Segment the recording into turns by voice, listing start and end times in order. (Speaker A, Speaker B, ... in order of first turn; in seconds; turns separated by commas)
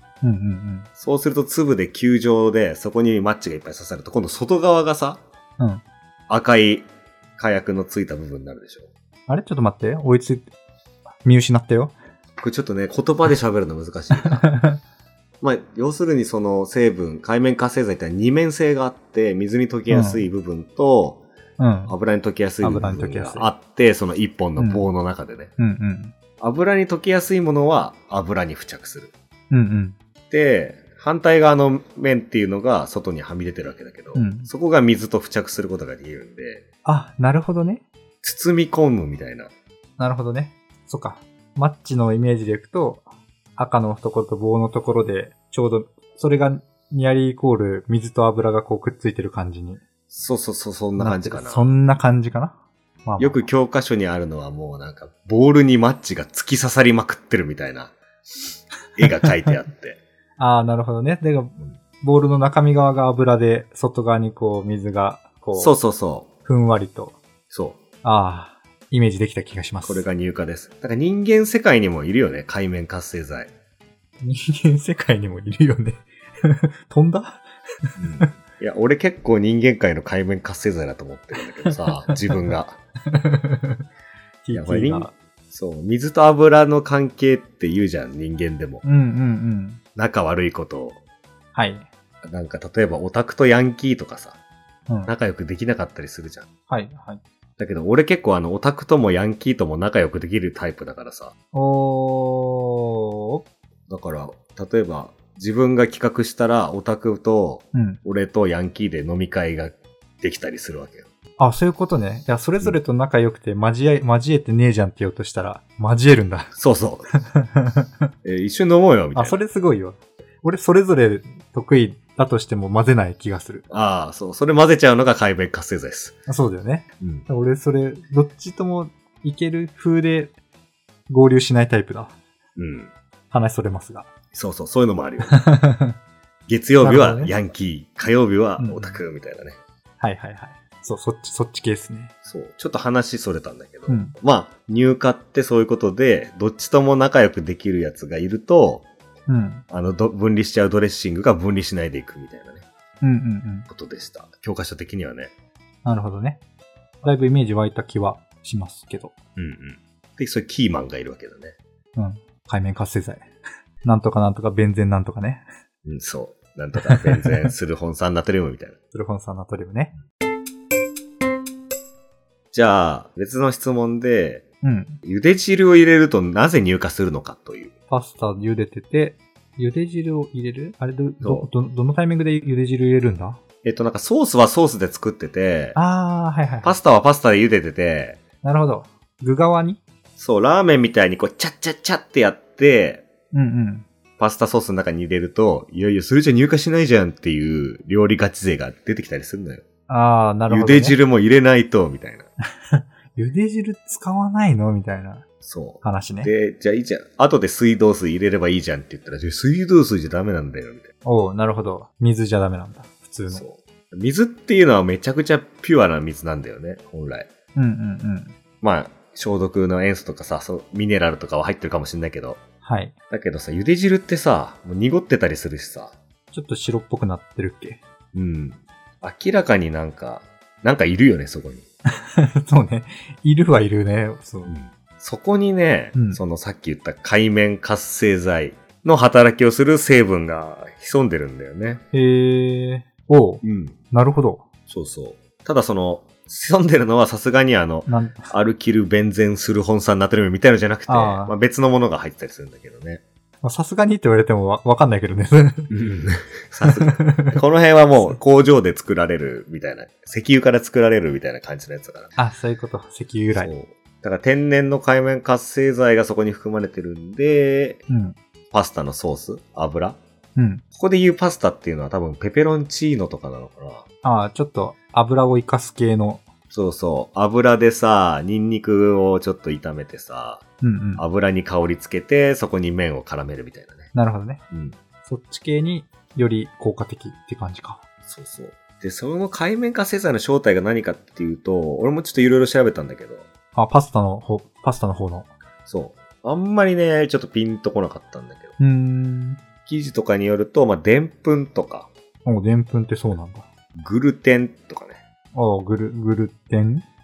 Speaker A: 0.2-0.9, Speaker B: 1.0-5.2, Speaker B: 6.3-6.8, Speaker B: 7.4-8.9, Speaker A: 9.3-10.5, Speaker A: 11.2-11.9, Speaker B: 12.4-14.4, Speaker A: 14.1-14.8, Speaker B: 15.4-21.2, Speaker A: 19.9-20.2, Speaker A: 21.6-21.9, Speaker B: 21.9-25.5, Speaker A: 22.6-23.5, Speaker A: 24.6-24.8, Speaker A: 25.6-26.1, Speaker B: 26.4-29.1, Speaker A: 29.5-30.0, Speaker B: 30.3-36.6, Speaker A: 34.1-34.5, Speaker A: 36.8-37.8, Speaker B: 38.2-39.5, Speaker A: 40.0-43.0, Speaker A: 43.6-49.8, Speaker B: 50.1-51.7, Speaker A: 51.0-53.5, Speaker B: 53.2-57.9, Speaker B: 59.0-60.0, Speaker A: 60.4-65.7, Speaker B: 65.5-66.3, Speaker A: 66.5-67.2, Speaker B: 67.5-67.8, Speaker A: 68.0-70.1, Speaker B: 69.8-73.5, Speaker A: 74.2-78.3, Speaker B: 78.0-82.8, Speaker A: 81.7-82.3, Speaker A: 83.1-83.8, Speaker A: 84.4-85.1, Speaker B: 84.5-88.8, Speaker A: 88.8-89.8, Speaker B: 90.0-91.0, Speaker A: 91.5-91.9, Speaker B: 92.2-94.4, Speaker B: 95.1-96.5, Speaker A: 96.7-97.2, Speaker B: 97.6-101.3, Speaker A: 101.5-103.4, Speaker B: 103.9-111.0, Speaker A: 107.7-108.0, Speaker A: 111.4-116.5, Speaker B: 116.5-117.1, Speaker A: 117.2-118.1, Speaker B: 118.2-119.4, Speaker A: 119.1-123.7, Speaker B: 123.7-126.2, Speaker A: 126.3-130.3, Speaker B: 127.0-127.3, Speaker A: 131.1-132.2, Speaker B: 132.6-132.9, Speaker A: 133.3-134.1, Speaker B: 134.3-135.4, Speaker A: 135.2-136.0, Speaker B: 136.5-139.6, Speaker A: 136.8-137.3, Speaker A: 138.6-139.0, Speaker A: 140.0-142.1, Speaker B: 142.2-148.9, Speaker A: 143.9-144.2, Speaker A: 149.3-149.6, Speaker B: 149.7-152.7, Speaker A: 153.0-153.7, Speaker B: 153.7-155.3, Speaker A: 155.8-156.4, Speaker A: 157.0-159.1, Speaker B: 159.3-161.6, Speaker A: 161.9-163.3, Speaker A: 163.8-165.4, Speaker B: 165.8-168.8, Speaker A: 166.8-167.5, Speaker A: 168.9-169.9, Speaker B: 172.5-174.4, Speaker A: 174.6-175.0, Speaker B: 175.0-177.7, Speaker A: 177.9-183.4, Speaker B: 181.2-181.5, Speaker B: 183.6-185.8, Speaker A: 185.7-186.8, Speaker B: 186.6-188.2, Speaker A: 188.4-189.8, Speaker B: 190.2-193.0, Speaker A: 193.3-193.8, Speaker B: 194.2-199.6, Speaker A: 199.9-201.0, Speaker B: 200.5-202.3, Speaker A: 202.7-205.2, Speaker B: 205.4-210.9, Speaker A: 205.8-206.3, Speaker A: 211.0-213.4, Speaker B: 213.3-217.3, Speaker A: 217.5-218.3, Speaker B: 218.6-222.4, Speaker A: 222.6-222.9, Speaker B: 223.1-225.9, Speaker A: 226.3-227.8, Speaker B: 228.1-231.6, Speaker A: 231.9-234.5, Speaker B: 234.5-241.8, Speaker A: 235.9-236.2, Speaker A: 241.9-244.4, Speaker B: 243.4-243.8, Speaker B: 244.7-253.0, Speaker A: 247.8-248.3, Speaker A: 250.9-251.3, Speaker A: 253.4-255.7, Speaker B: 255.7-262.1, Speaker A: 256.6-257.4, Speaker A: 262.1-263.5, Speaker B: 263.3-267.8, Speaker A: 267.9-268.1, Speaker B: 268.5-270.0, Speaker A: 270.4-270.6, Speaker B: 270.7-273.8, Speaker A: 274.0-276.2, Speaker B: 276.5-280.4, Speaker A: 280.6-281.0, Speaker B: 281.0-283.9, Speaker A: 283.9-284.4, Speaker B: 284.5-284.8, Speaker A: 285.1-287.8, Speaker B: 288.1-293.2, Speaker A: 293.5-295.3, Speaker B: 295.7-298.6, Speaker A: 298.6-299.4, Speaker B: 299.6-301.9, Speaker A: 302.2-303.4, Speaker B: 303.8-305.0, Speaker A: 305.3-306.8